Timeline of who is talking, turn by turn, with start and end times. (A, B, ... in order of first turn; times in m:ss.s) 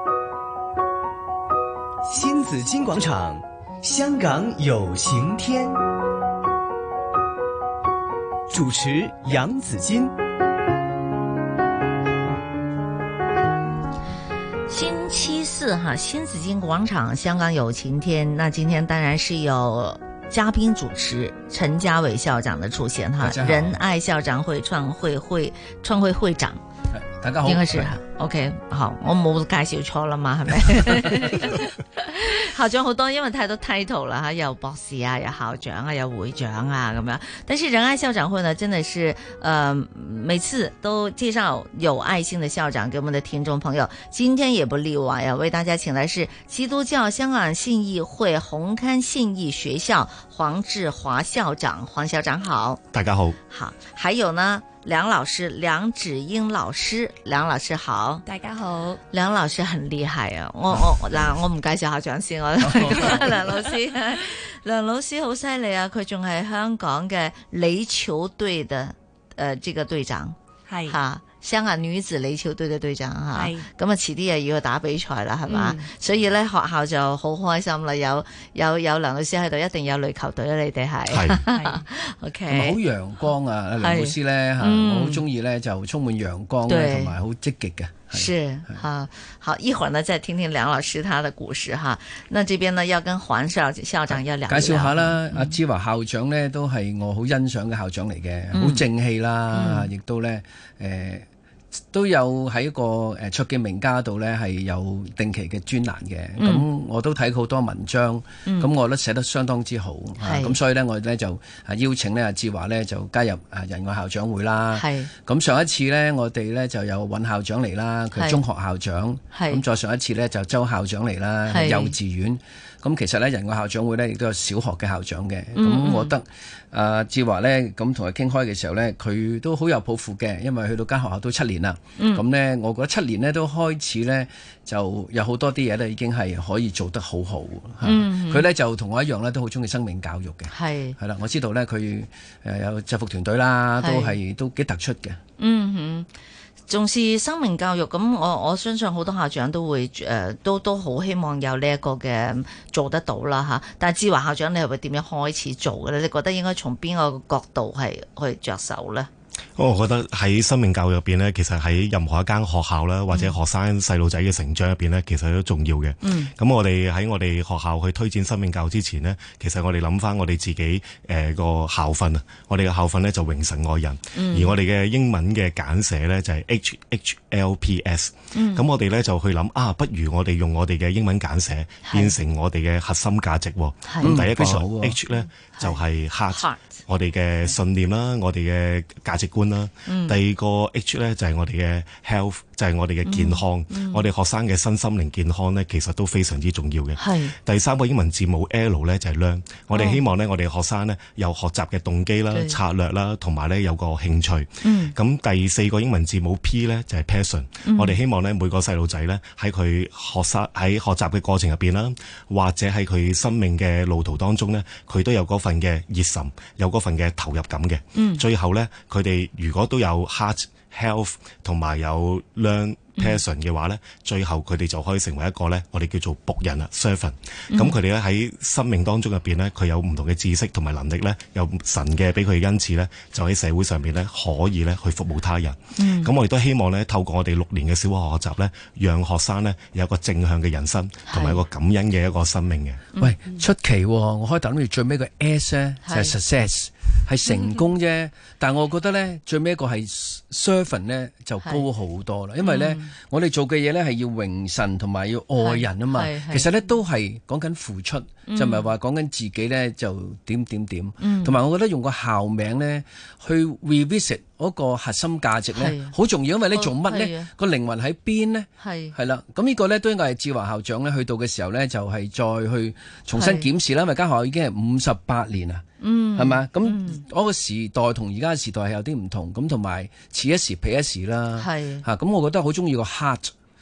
0:02.0-0:05.8 A
0:08.5-0:10.1 A
0:14.7-0:26.6 B
0:23.2-0:23.8 C
0:26.9-0:28.0 C
0:27.4-0:52.8 B
0:52.9-0:53.4 D
0:53.5-0:58.2 B
0:58.2-0:59.0 E
0:59.1-1:10.4 B
1:02.6-1:03.4 C
1:10.7-1:11.0 E
1:10.9-1:22.8 B
1:13.3-1:13.7 E
1:15.5-1:15.9 E
1:21.1-1:21.4 D
1:21.5-1:21.8 E
1:22.5-1:28.8 C
1:23.8-1:25.2 B
1:26.7-1:27.2 B
1:28.1-1:35.5 B
1:34.1-1:41.2 C
1:38.5-1:38.8 B
1:39.5-1:39.9 B
1:41.9-2:25.2 C
1:46.4-1:46.6 B
1:48.4-1:48.7 B
1:50.2-1:50.6 B
1:54.7-1:55.1 B
1:58.1-1:58.4 B
1:59.3-1:59.6 B
2:01.5-2:01.9 B
2:05.6-2:06.1 B
2:12.0-2:12.2 B
2:17.8-2:18.5 B
2:20.5-2:21.0 B
2:23.8-2:24.2 B
2:25.4-2:26.1 B
2:26.7-2:39.1 B
2:39.6-4:02.8 D
2:43.1-2:43.4 B
2:46.0-2:46.3 B
2:54.1-2:54.5 B
2:58.3-2:58.6 B
3:01.8-3:02.1 B
3:03.8-3:04.2 B
3:04.0-3:05.0 C
3:05.5-3:06.8 B
3:09.8-3:10.2 B
3:13.0-3:14.0 B
3:17.0-3:17.3 B
3:19.7-3:20.0 B
3:22.3-3:22.6 B
3:24.6-3:24.9 B
3:27.6-3:28.0 B
3:37.9-3:38.2 B
3:47.5-3:47.8 B
3:55.8-3:56.1 B
4:01.1-4:01.4 B
4:03.0-4:35.6 C
4:05.8-4:06.1 B
4:12.4-4:12.9 B
4:15.4-4:16.5 B
4:18.3-4:18.7 B
4:21.0-4:21.4 B
4:25.5-4:25.9 B
4:26.5-4:27.3 B
4:28.6-4:28.9 B
4:33.1-4:33.5 B
4:35.8-4:37.0 B
4:36.2-4:43.3 C
4:41.4-4:41.8 B